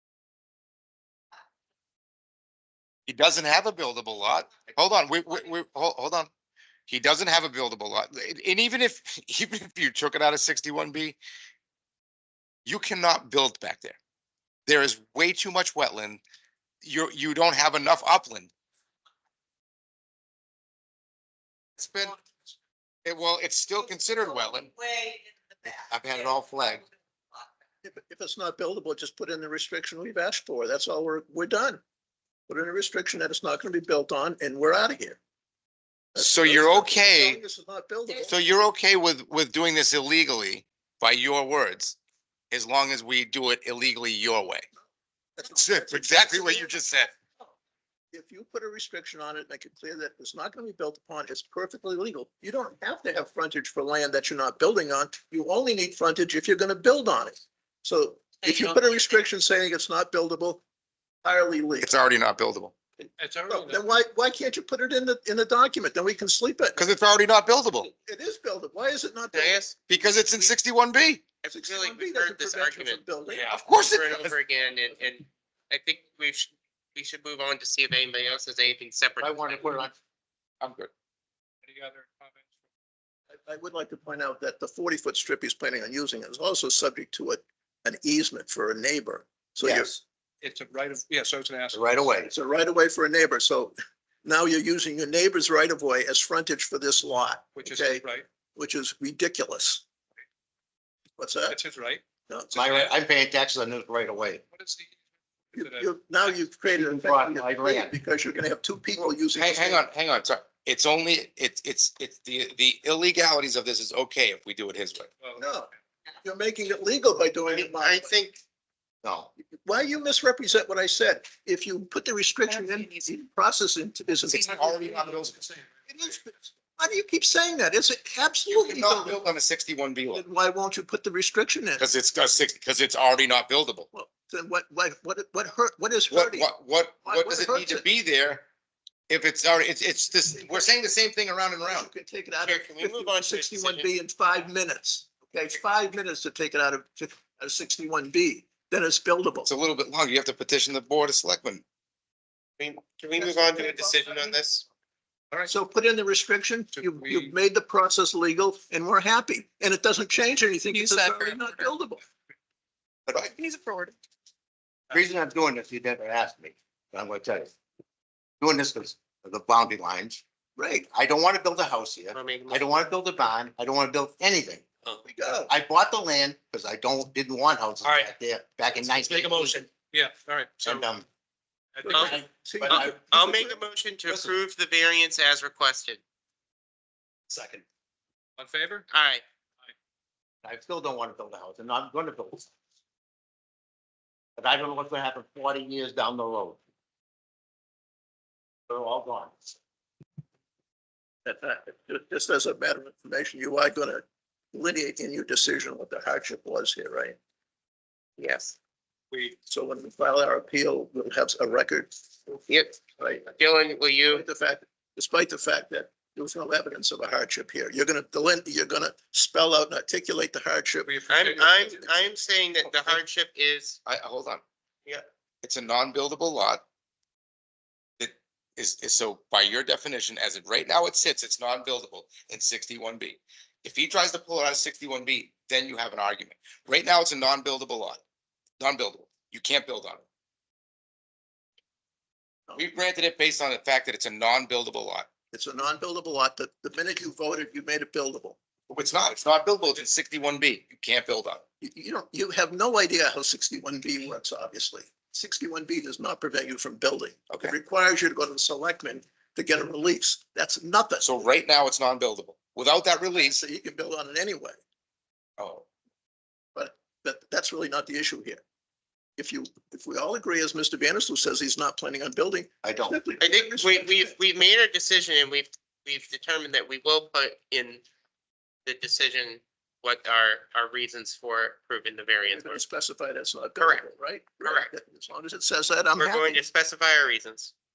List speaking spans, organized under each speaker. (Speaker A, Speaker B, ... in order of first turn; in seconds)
Speaker A: 3.1-6.3, 6.9-11.2, 12.7-14.0, 14.7-16.2, 16.8-18.5, 21.8-22.2, 23.1-25.1, 36.2-37.4, 38.3-42.0, 42.5-44.6, 45.5-47.1, 61.8-62.7, 66.8-67.9, 69.9-71.2, 73.5-74.4, 80.6-80.9, 89.6-89.9, 109.3-115.1, 124.3-125.5, 128.5-130.2, 131.8-133.9, 136.1-138.4, 139.1-141.9, 149.4-151.6, 223.9-224.4, 225.4-226.6, 228.0-238.0, 238.6-240.0, 242.6-245.1, 248.7-251.4, 261.0-263.4, 265.4-265.7
Speaker B: 25.7-26.9, 79.2-80.0, 91.7-92.3, 102.5-104.4, 106.7-107.9, 119.0-119.3, 164.9-167.5, 168.4-170.2, 170.9-174.6, 175.5-179.7, 180.6-181.1, 181.9-183.1, 190.4-192.5, 194.4-196.6, 198.7-199.4, 272.6-273.0
Speaker C: 27.8-31.8, 32.5-35.2, 36.1-38.4, 45.4-46.8, 48.1-60.6, 61.2-61.9, 63.0-66.8, 67.9-70.5, 71.5-73.5, 83.3-90.0, 92.3-99.8, 101.2-101.6, 102.3-102.6, 105.6-109.8, 115.4-115.7, 116.2-118.2, 119.7-124.8, 125.9-129.2, 130.1-131.8, 133.9-136.5, 137.1-137.9, 141.6-149.5, 153.2-154.4, 155.5-162.0, 170.6-170.9, 175.1-175.5, 181.8-183.6, 201.2-207.2, 209.5-211.9, 213.0-213.3, 214.1-221.9, 245.3-248.4, 251.6-261.1, 263.1-264.6, 266.6-268.4, 269.2-274.1, 282.2-286.4
Speaker D: 63.2-63.8, 73.3-73.6, 81.7-82.5, 90.4-91.8, 97.6-98.3, 101.5-102.0, 102.6-102.9, 104.5-106.3, 156.7-157.3, 177.8-178.1, 178.8-180.9, 181.8-182.2, 187.3-187.6, 188.4-188.9, 209.1-209.4, 220.8-221.8
Speaker E: 69.3-69.7, 71.4-73.1, 73.7-79.8, 117.5-118.4, 142.4-143.9, 152.6-154.7, 163.2-163.9, 172.1-172.7, 181.9-186.0, 188.9-189.2, 208.2-208.6, 212.5-214.2, 221.1-223.8, 273.2-277.8, 278.6-282.6, 283.6-283.9, 284.4-284.7, 286.0-287.5